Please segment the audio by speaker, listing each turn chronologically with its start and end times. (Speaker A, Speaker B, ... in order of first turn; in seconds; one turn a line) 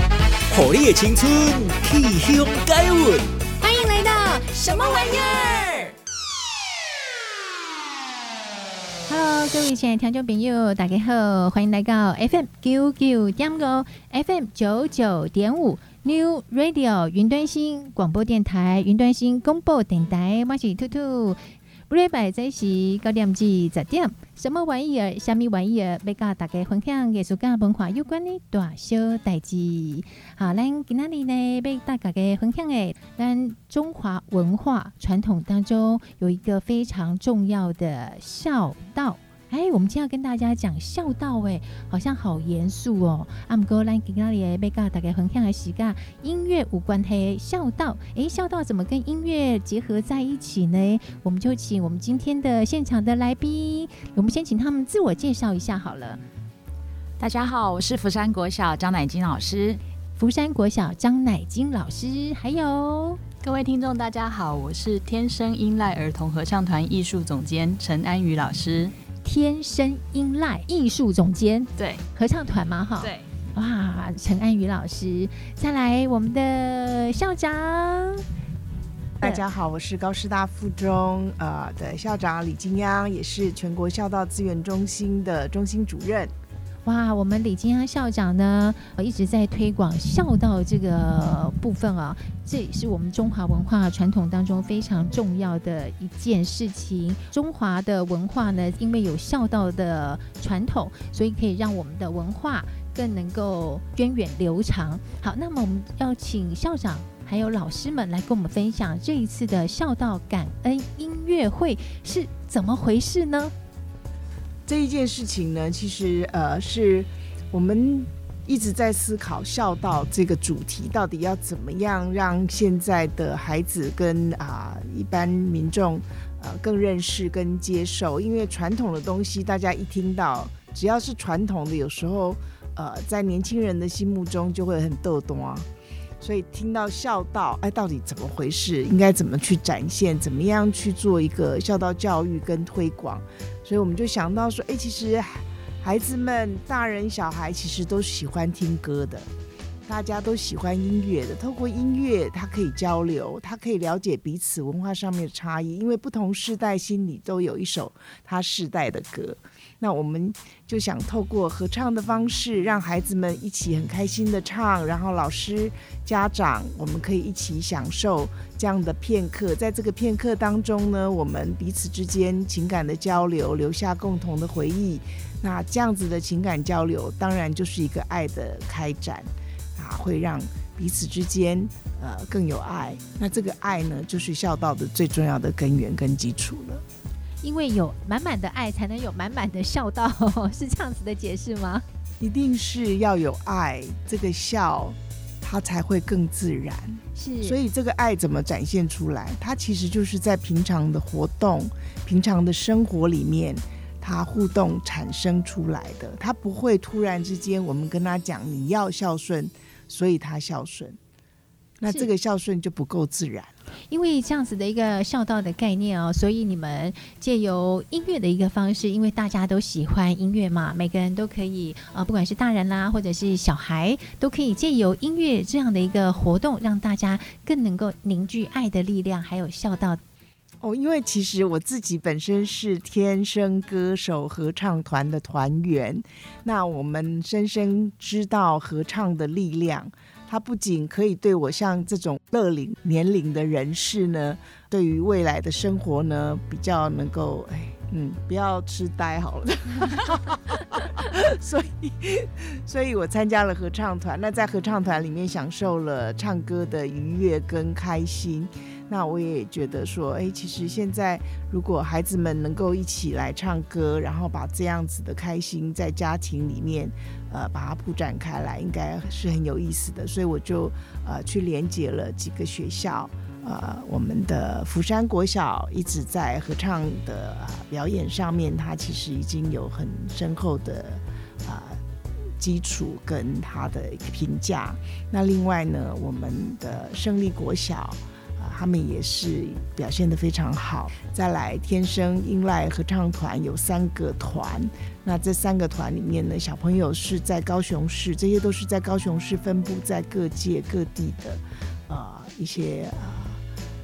Speaker A: 0.5-3.3
Speaker B: 3.6-6.0
Speaker C: 9.1-56.2
Speaker D: 57.2-59.8
Speaker C: 60.2-63.2
Speaker E: 63.4-68.9
Speaker C: 69.2-78.2
Speaker E: 71.8-72.0
Speaker F: 79.2-86.3
Speaker C: 86.8-113.5
Speaker F: 114.7-135.7
Speaker F: 136.2-149.3
Speaker F: 149.9-186.8
Speaker C: 187.4-191.8
Speaker F: 192.2-211.0
Speaker C: 197.2-197.6
Speaker F: 211.8-213.5
Speaker C: 213.9-230.0
Speaker F: 230.6-281.8
Speaker F: 282.4-303.4